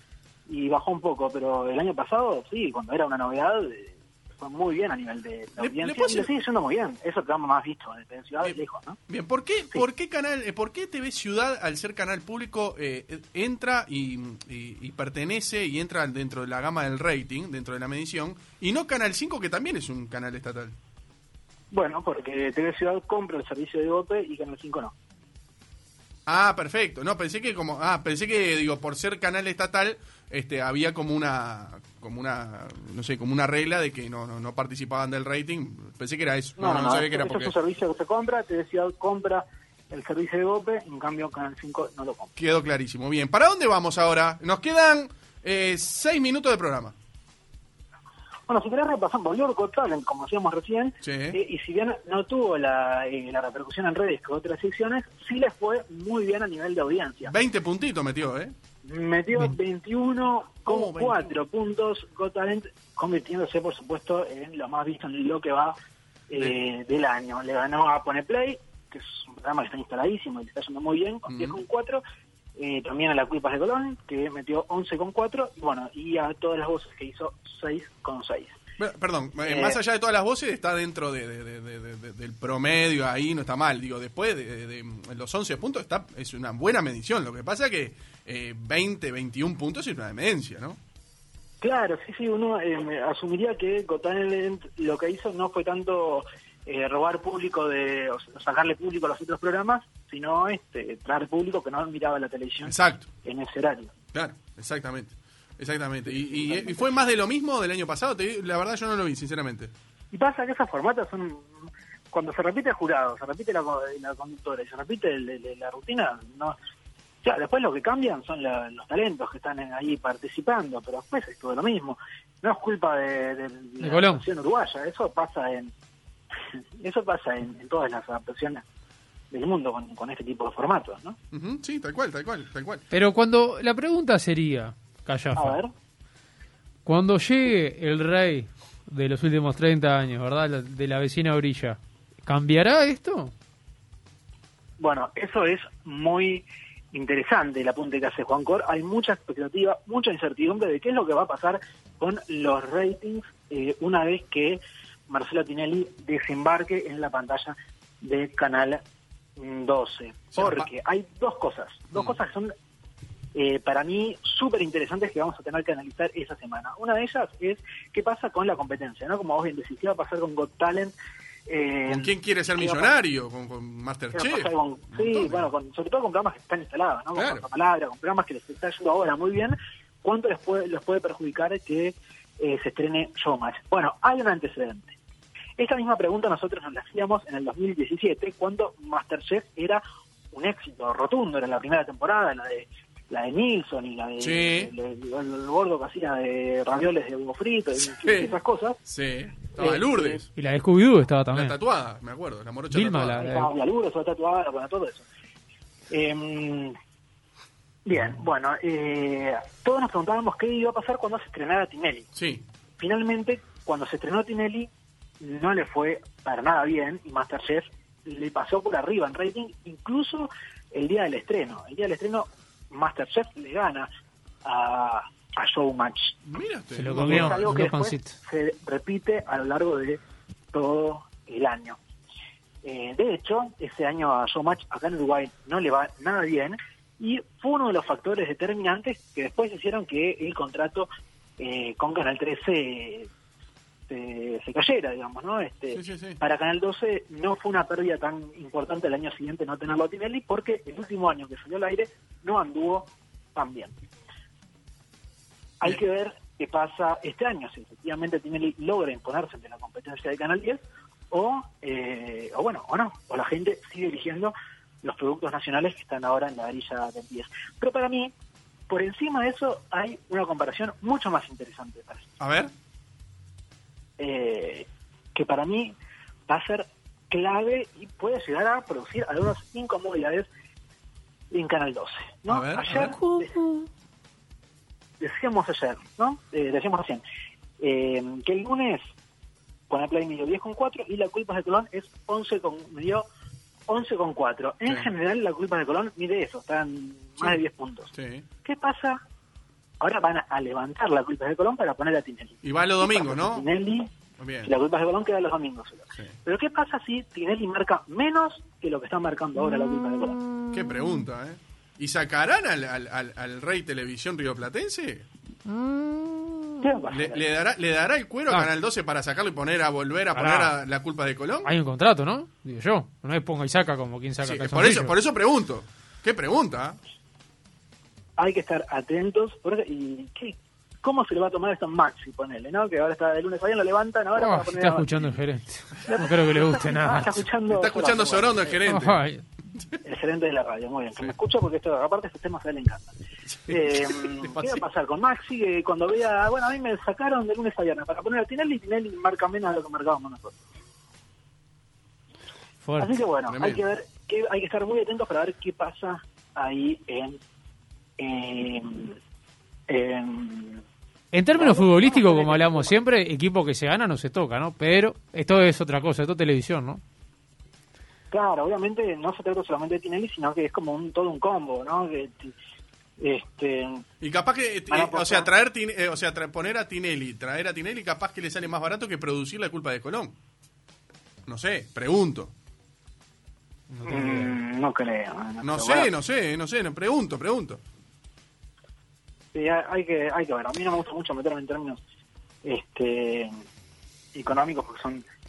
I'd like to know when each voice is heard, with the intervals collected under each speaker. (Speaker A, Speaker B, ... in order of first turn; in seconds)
Speaker A: 0.5-9.0, 21.7-24.9, 36.6-42.3, 48.5-57.3, 58.9-65.8, 66.3-72.0, 72.6-78.6, 79.5-79.8, 91.6-103.9, 106.1-106.9, 110.1-116.6, 117.2-125.7, 126.8-128.6, 129.3-131.2, 135.4-135.7, 144.8-158.8, 159.4-162.5, 163.3-170.9, 171.5-172.9, 174.1-184.9, 185.6-198.8, 199.6-200.2, 203.2-205.0, 205.9-206.8, 207.9-212.1, 212.8-214.7, 215.2-223.9, 224.4-226.2, 227.0-230.0, 230.5-231.8, 232.6-243.1, 243.9-253.7, 255.6-268.1, 268.7-272.1, 274.0-275.8, 276.3-280.3, 281.3-283.4, 285.0-287.0, 287.6-288.8, 289.7-293.1, 293.7-297.9, 298.4-299.0, 299.8-303.9, 304.4-310.2, 316.6-317.2, 328.2-334.9, 335.9-338.6, 339.8-342.9, 343.5-350.4, 352.8-357.2, 358.0-359.0, 359.7-360.6, 361.3-362.8, 368.1-372.4, 373.0-373.8, 374.7-375.3, 383.8-385.9, 389.3-391.8, 392.4-393.3, 394.1-395.0
Speaker B: 5.6-6.3, 9.1-20.8, 26.3-37.5, 42.4-47.0, 51.0-51.4, 57.3-58.5, 60.7-61.4, 71.3-71.6, 78.8-90.8, 102.7-103.1, 104.1-109.7, 131.3-132.8, 160.3-160.7, 171.9-175.5, 177.2-177.4, 194.2-194.7, 198.0-200.3, 201.3-203.2, 212.2-212.4, 226.2-227.6, 245.7-246.2, 272.2-272.5, 282.3-282.9, 297.9-298.2, 302.4-303.5, 304.2-304.5, 310.5-315.1, 316.9-321.5, 324.2-326.8, 337.5-339.0, 343.4-344.6, 353.3-353.6, 374.0-380.1, 381.3-382.3, 385.4-387.6
Speaker C: 123.8-124.2, 132.9-135.6, 136.9-143.3, 200.4-201.6, 202.7-203.5, 226.8-228.2, 282.8-283.6, 310.4-311.0, 315.5-316.6, 320.1-320.5, 321.4-325.0, 334.2-337.3, 338.7-339.2, 352.6-353.0, 361.1-366.8, 383.7-384.4